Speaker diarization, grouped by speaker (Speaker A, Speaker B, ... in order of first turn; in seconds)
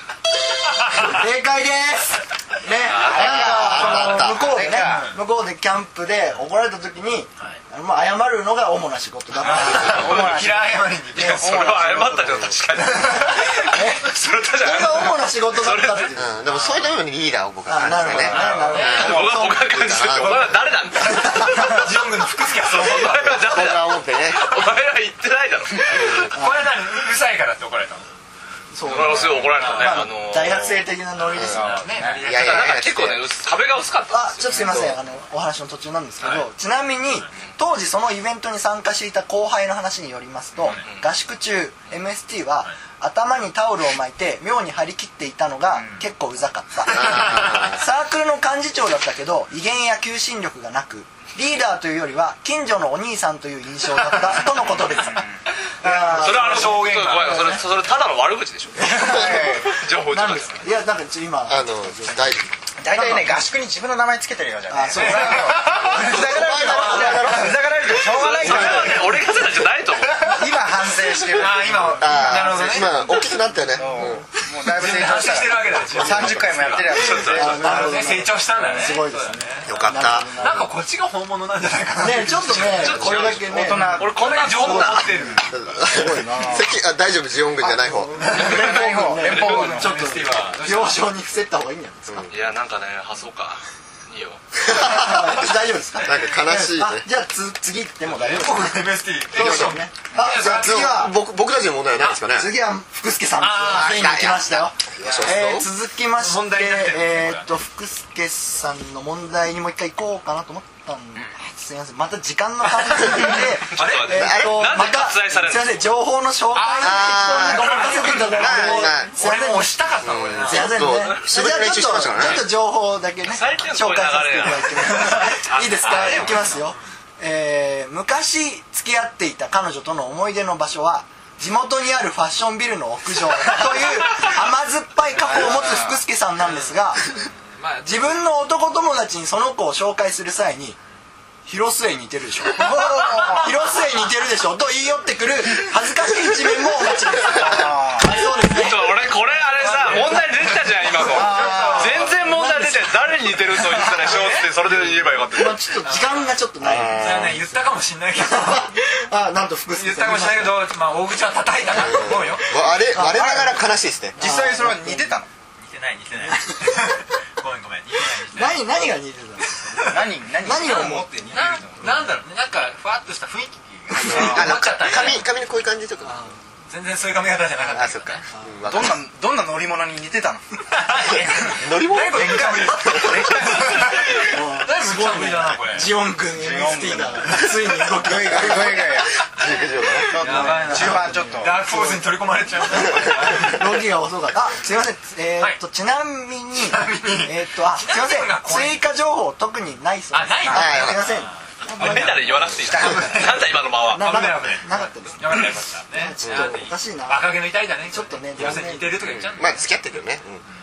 Speaker A: 1.0-10.2, 11.1-11.5, 13.0-14.1, 14.6-16.4, 17.6-19.7, 21.1-21.8, 26.3-26.7, 28.7-31.9, 34.1-55.3, 55.8-57.6, 59.0-59.3, 60.1-63.5, 64.7-67.4, 77.3-80.7, 82.0-85.1, 87.9-92.3, 94.7-101.2, 102.3-137.0, 137.8-140.8, 141.5-149.1, 151.5-152.9, 155.3-157.4, 158.2-160.6, 162.9-163.6, 164.2-165.1, 166.3-166.9, 168.3-172.0, 176.0-176.4, 178.3-178.6, 184.2-188.9, 190.2-192.1, 192.8-202.4, 203.8-209.0
Speaker B: 2.9-3.2, 11.3-16.1, 18.7-21.8, 22.7-26.3, 28.8-30.8, 32.3-34.7, 40.7-41.1, 56.1-60.7, 68.0-70.5, 76.8-77.6, 82.6-85.1, 89.3-89.7, 92.3-94.4, 113.7-115.9, 121.0-121.8, 123.2-125.6, 148.4-155.7, 201.7-204.6
Speaker C: 3.0-5.1, 9.4-12.5, 18.3-19.1, 31.5-32.3, 54.9-56.4, 58.8-59.8, 62.8-69.3, 70.2-73.2, 73.7-78.1, 83.4-86.8, 87.6-90.0, 135.3-135.9, 142.5-143.6, 147.1-148.2, 151.1-152.1, 162.9-165.3, 169.8-171.9, 174.0-174.6, 178.7-180.4, 180.9-181.5, 182.9-184.2, 186.3-189.1, 190.1-191.7, 202.6-203.0
Speaker D: 3.0-4.4, 16.1-20.8, 23.3-24.6, 25.9-26.3, 31.3-33.2, 34.6-35.0, 46.9-47.8, 59.3-59.5, 61.5-62.4, 65.9-69.1, 72.0-74.2, 79.7-80.7, 85.5-88.4, 92.1-92.3, 94.6-97.0, 99.3-102.5, 103.5-105.7, 114.1-114.8, 116.8-119.1, 120.0-122.5, 156.6-157.4, 161.7-164.2, 173.9-176.2, 177.7-179.0, 180.9-183.2, 188.3-190.2, 200.5-201.1, 206.2-206.6, 208.4-210.4
Speaker E: 4.8-5.1, 9.4-12.1, 16.5-16.8, 18.1-19.0, 21.0-23.4, 26.3-28.1, 29.4-30.0, 31.6-32.8, 40.6-40.8, 47.0-47.5, 56.2-57.6, 64.9-67.3, 71.3-73.0, 74.7-83.3, 83.8-85.5, 89.3-91.1, 98.1-101.1, 103.4-104.1, 105.0-105.4, 106.2-107.5, 112.9-114.3, 116.5-120.8, 125.2-126.8, 136.4-138.2, 149.2-152.2, 153.9-154.5, 155.8-156.3, 156.9-158.7, 159.7-162.6, 165.6-168.7, 169.6-170.0, 170.7-175.3, 176.7-178.2, 180.7-185.9, 190.2-193.8, 196.6-198.8, 200.1-209.8